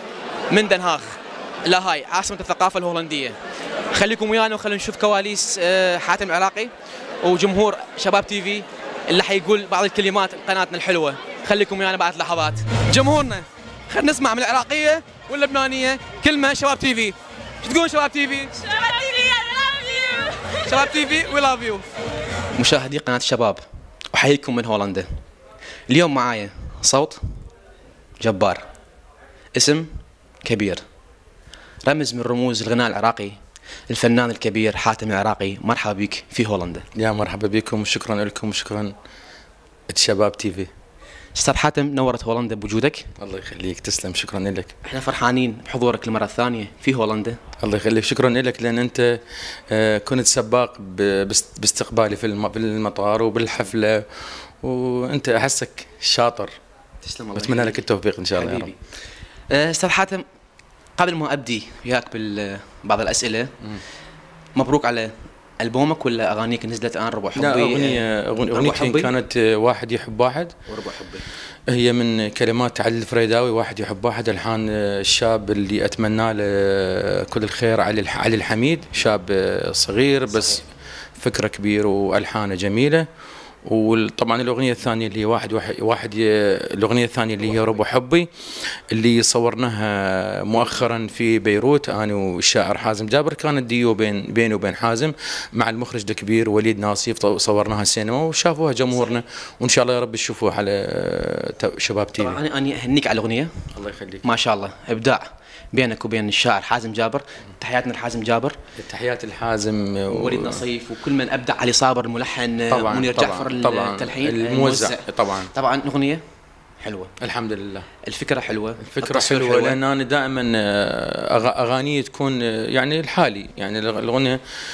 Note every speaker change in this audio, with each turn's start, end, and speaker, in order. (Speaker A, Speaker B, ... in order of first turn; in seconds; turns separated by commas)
Speaker A: 0.5-1.1, Speaker A: 1.6-3.4, Speaker A: 3.9-6.7, Speaker A: 7.2-18.5, Speaker A: 20.6-21.8, Speaker A: 22.6-23.6, Speaker A: 24.1-25.1, Speaker A: 25.9-27.2, Speaker A: 28.2-28.6, Speaker A: 29.5-29.9, Speaker A: 30.4-30.8, Speaker A: 31.9-33.4, Speaker A: 33.9-36.8, Speaker B: 37.0-38.9, Speaker B: 39.9-40.7, Speaker A: 41.4-43.0, Speaker B: 43.2-44.7, Speaker A: 44.9-47.4, Speaker B: 47.6-49.0, Speaker B: 49.7-56.5, Speaker A: 57.0-57.8, Speaker B: 57.3-58.7, Speaker A: 58.3-58.8, Speaker A: 59.5-60.2, Speaker A: 61.0-63.5, Speaker A: 64.5-69.1, Speaker B: 67.3-70.5, Speaker A: 70.7-71.2, Speaker B: 71.7-80.6, Speaker A: 80.3-80.6, Speaker B: 81.2-83.0, Speaker B: 83.7-88.3, Speaker B: 88.9-102.4, Speaker A: 98.9-99.2, Speaker A: 102.2-103.5, Speaker B: 103.7-104.2, Speaker A: 104.2-108.6, Speaker B: 108.8-110.6, Speaker A: 110.1-116.2, Speaker B: 112.7-115.5, Speaker A: 116.8-117.1, Speaker B: 117.2-117.9, Speaker A: 118.1-119.8, Speaker B: 118.8-124.4